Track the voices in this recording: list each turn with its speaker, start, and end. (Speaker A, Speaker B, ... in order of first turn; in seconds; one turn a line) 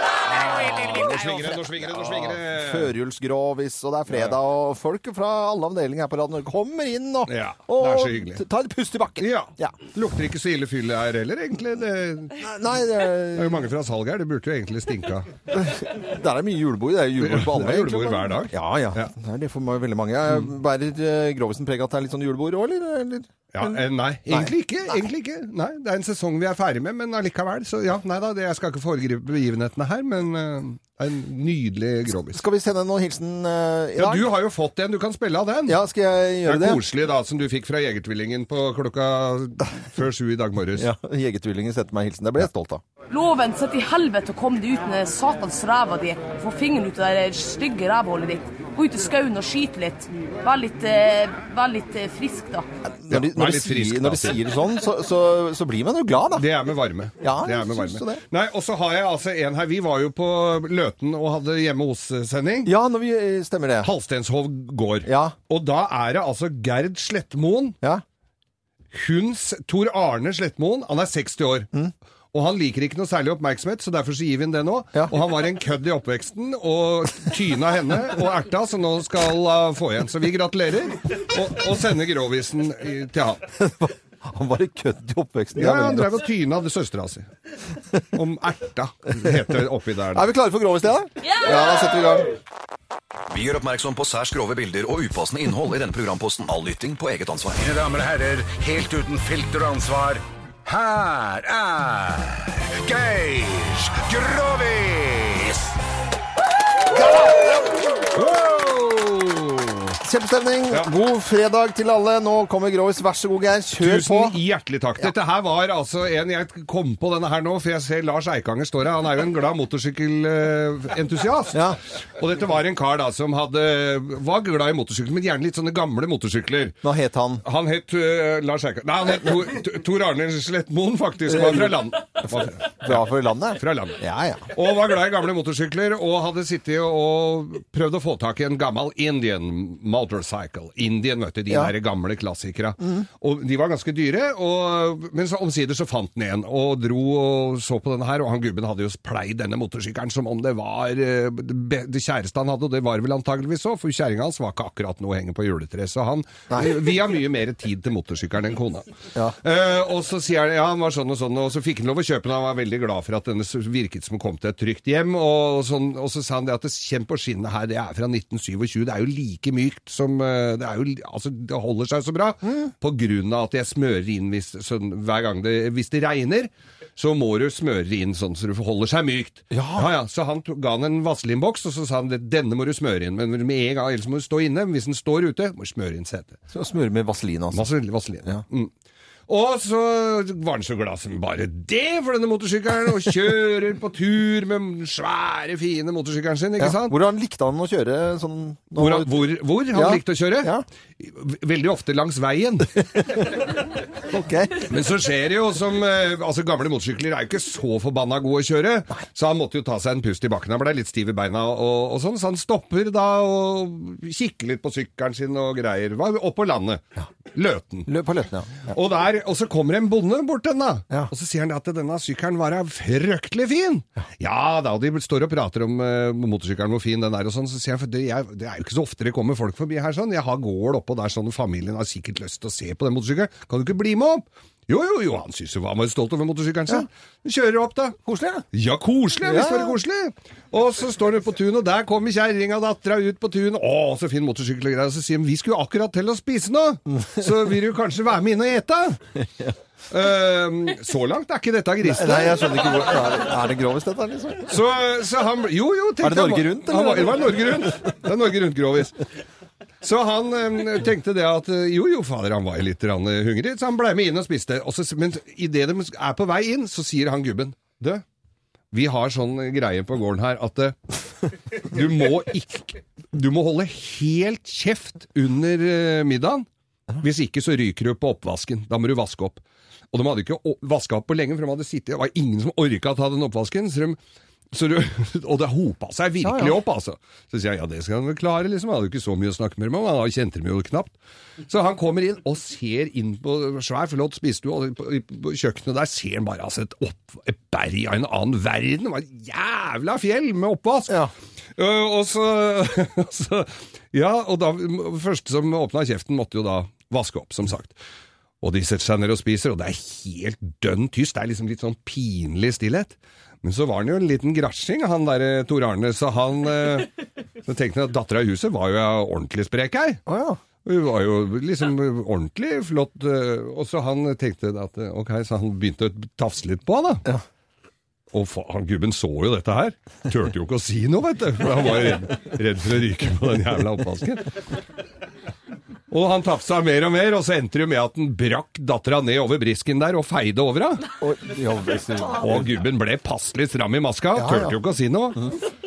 Speaker A: 0.3-2.9
Speaker B: 0.5-9.8
Speaker A: 4.1-4.4
Speaker A: 7.3-8.4
Speaker A: 9.2-12.5
Speaker B: 12.4-13.7
Speaker A: 13.3-15.4
Speaker B: 15.5-24.5
Speaker A: 17.2-19.1
Speaker A: 23.5-32.4
Speaker B: 32.3-34.3
Speaker A: 34.0-35.8
Speaker B: 35.6-36.8
Speaker A: 36.4-40.9
Speaker B: 40.8-42.8
Speaker C: 43.1-52.6
Speaker B: 52.8-56.5
Speaker A: 53.1-54.4
Speaker A: 56.3-62.7
Speaker B: 57.2-58.2
Speaker B: 62.6-63.9
Speaker A: 63.8-67.8
Speaker B: 65.0-65.3
Speaker A: 68.9-71.7
Speaker A: 72.3-83.5
Speaker B: 83.5-86.2
Speaker A: 85.5-87.3
Speaker A: 88.1-90.3
Speaker B: 90.1-92.3
Speaker D: 93.3-97.6
Speaker E: 97.6-105.7
Speaker A: 108.1-110.0
Speaker B: 110.0-114.4
Speaker A: 113.8-126.8
Speaker B: 121.5-121.8
Speaker B: 126.8-127.4
Speaker A: 127.4-186.4
Speaker B: 131.3-131.7
Speaker B: 132.4-134.5
Speaker B: 179.5-179.9
Speaker B: 186.5-187.7
Speaker A: 187.5-188.7
Speaker A: 189.3-197.0
Speaker B: 196.6-200.6
Speaker A: 198.7-203.3
Speaker B: 204.1-204.7
Speaker A: 204.6-217.9
Speaker B: 217.9-218.7
Speaker A: 218.6-249.2
Speaker B: 238.1-238.4
Speaker B: 239.2-239.8
Speaker A: 249.9-252.7
Speaker B: 251.8-254.5
Speaker A: 254.4-259.0
Speaker B: 256.0-257.7
Speaker A: 259.8-268.0
Speaker A: 268.7-270.8
Speaker A: 271.5-276.4
Speaker A: 277.0-284.0
Speaker A: 284.5-307.8
Speaker B: 286.2-286.6
Speaker A: 308.4-320.0
Speaker B: 320.1-320.4
Speaker A: 320.6-327.0
Speaker A: 328.1-334.4
Speaker A: 335.9-340.9
Speaker B: 341.0-342.4
Speaker A: 342.1-345.3
Speaker B: 344.1-344.6